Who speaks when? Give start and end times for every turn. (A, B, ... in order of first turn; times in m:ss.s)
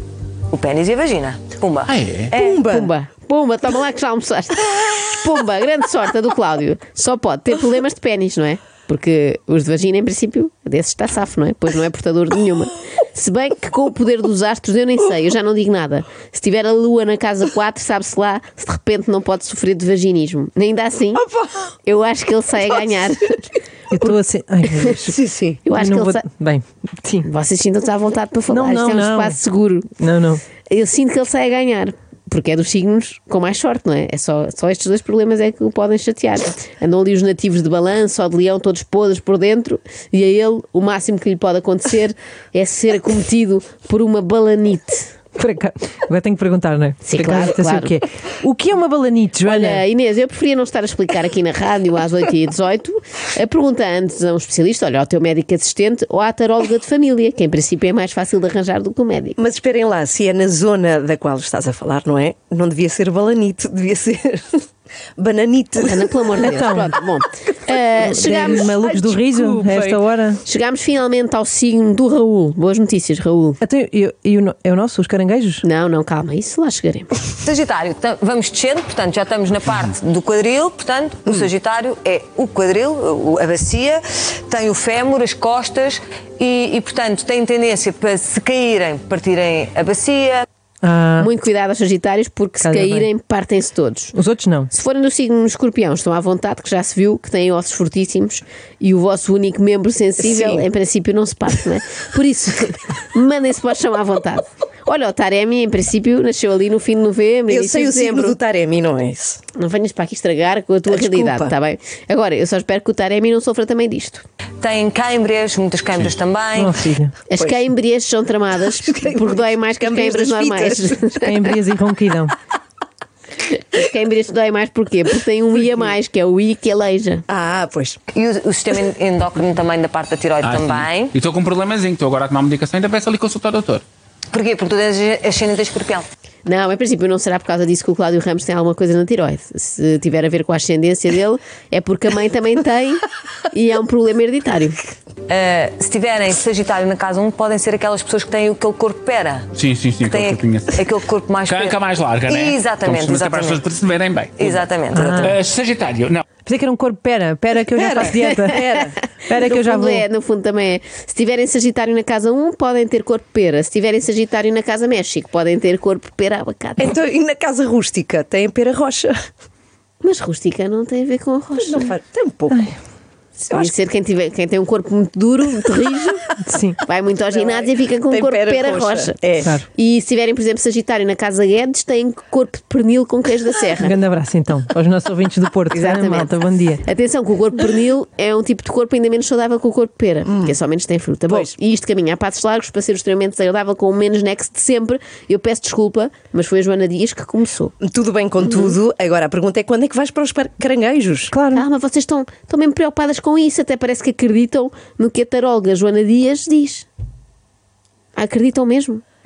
0:00.5-0:02.6 A
0:01.9-0:02.3 B
0:02.3-0:02.9 C
0:02.7-0:21.2 D
0:21.2-0:21.7 C
0:21.8-0:23.4 D
0:23.9-0:25.2 E
0:25.1-0:25.6 C
0:25.6-0:26.2 D
0:25.7-0:27.3 E
0:27.2-0:29.9 D
0:28.5-0:29.4 E
0:30.0-0:30.4 E
0:30.7-0:45.1 D
0:45.4-0:49.8 E
0:47.0-0:47.9 D
0:49.4-0:59.4 D
0:59.4-1:04.6 C
1:05.2-1:06.1 C
1:05.8-1:08.9 D
1:06.4-1:06.9 E
1:08.0-1:10.4 E
1:08.2-1:10.0 C
1:10.4-1:13.6 D
1:13.6-1:15.6 E
1:15.6-1:17.1 D
1:17.4-1:30.4 A
1:30.8-1:31.3 E
1:31.2-1:34.1 D
1:32.6-1:33.1 E
1:34.1-1:34.7 E
1:34.7-1:48.4 D
1:40.2-1:40.6 C
1:47.5-1:49.4 C
1:49.5-1:54.2 D
1:50.9-1:51.5 C
1:54.6-1:56.8 A
1:56.6-1:57.1 E
1:57.3-2:01.3 D
1:57.4-1:57.7 C
1:58.8-2:01.2 C
2:01.2-2:02.3 E
2:03.4-2:07.2 D
2:07.3-2:08.0 C
2:08.1-2:11.1 A
2:10.4-2:13.8 B
2:14.3-2:16.0 A
2:16.4-2:24.8 D
2:25.3-2:29.5 A
2:29.5-2:30.8 B
2:30.0-2:33.6 A
2:31.5-2:34.6 B
2:34.4-2:35.4 A
2:34.9-2:35.4 E
2:35.2-2:36.2 B
2:36.4-2:38.6 E
2:37.8-2:39.0 C
2:38.8-2:46.9 D
2:39.2-2:40.0 E
2:46.8-2:49.2 C
2:50.0-2:51.9 D
2:51.6-2:52.6 C
2:52.5-2:52.7 E
2:53.4-2:56.2 D
2:56.4-2:56.8 E
2:56.8-2:59.2 D
2:57.4-2:59.5 C
2:59.4-2:59.6 E
2:59.7-3:03.9 D
3:03.8-3:06.8 E
3:05.7-3:17.7 D
3:17.8-3:21.3 C
3:21.3-3:21.6 E
3:21.5-3:26.9 D
3:28.2-3:29.0 D